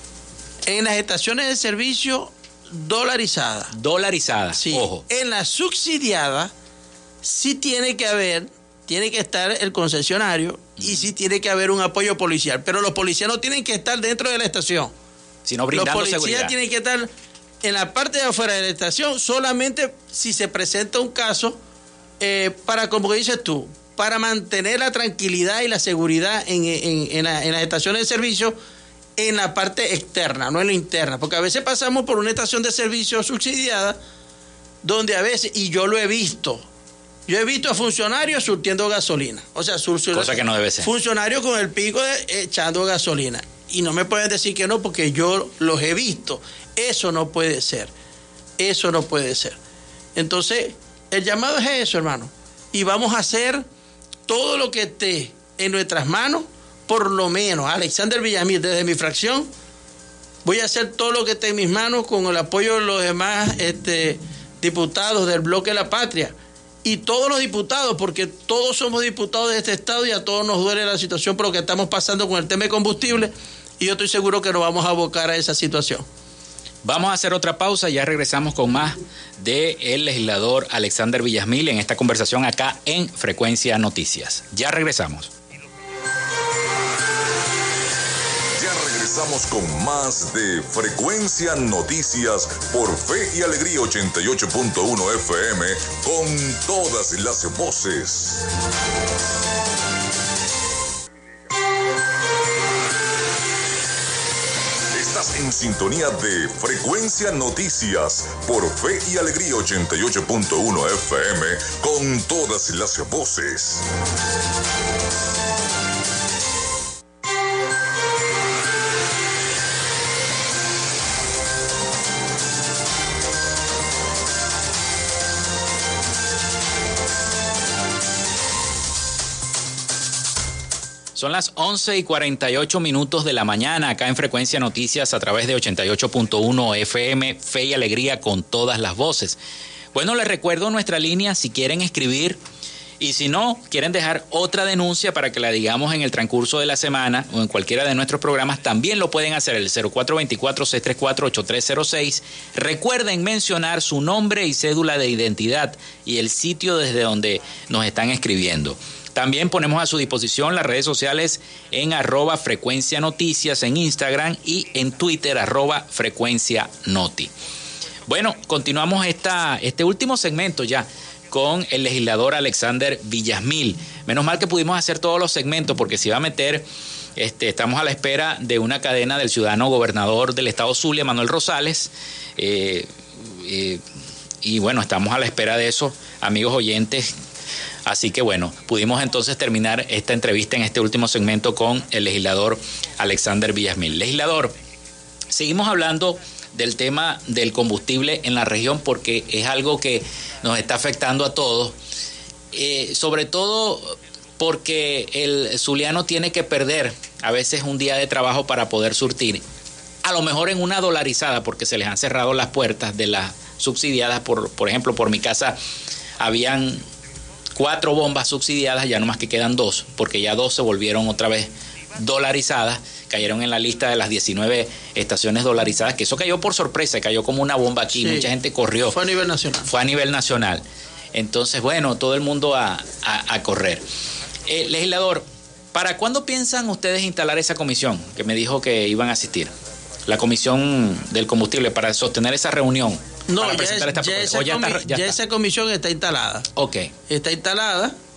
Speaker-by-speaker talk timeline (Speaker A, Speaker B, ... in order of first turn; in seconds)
Speaker A: 0.7-3.7, 4.5-6.5, 7.2-14.9, 15.7-17.1, 17.6-21.6, 22.2-28.5, 29.2-34.0, 34.8-36.6, 37.3-47.9, 48.6-49.6, 50.1-53.6, 54.3-59.5, 60.4-76.0, 227.9-228.3, 228.9-229.7, 243.3-246.5, 247.1-247.9
Speaker B: 3.7-5.0, 15.4-16.5, 40.1-40.9, 76.8-85.3, 131.1-139.4, 139.9-142.4, 143.0-167.3, 168.1-176.7, 177.2-183.8, 184.4-187.1, 187.8-194.5, 195.3-201.8, 202.5-209.4, 210.0-215.6, 216.2-216.8, 217.6-229.0, 229.7-233.8, 234.5-239.5, 240.1-245.2, 246.6-246.9
Speaker C: 88.5-98.5, 104.9-113.9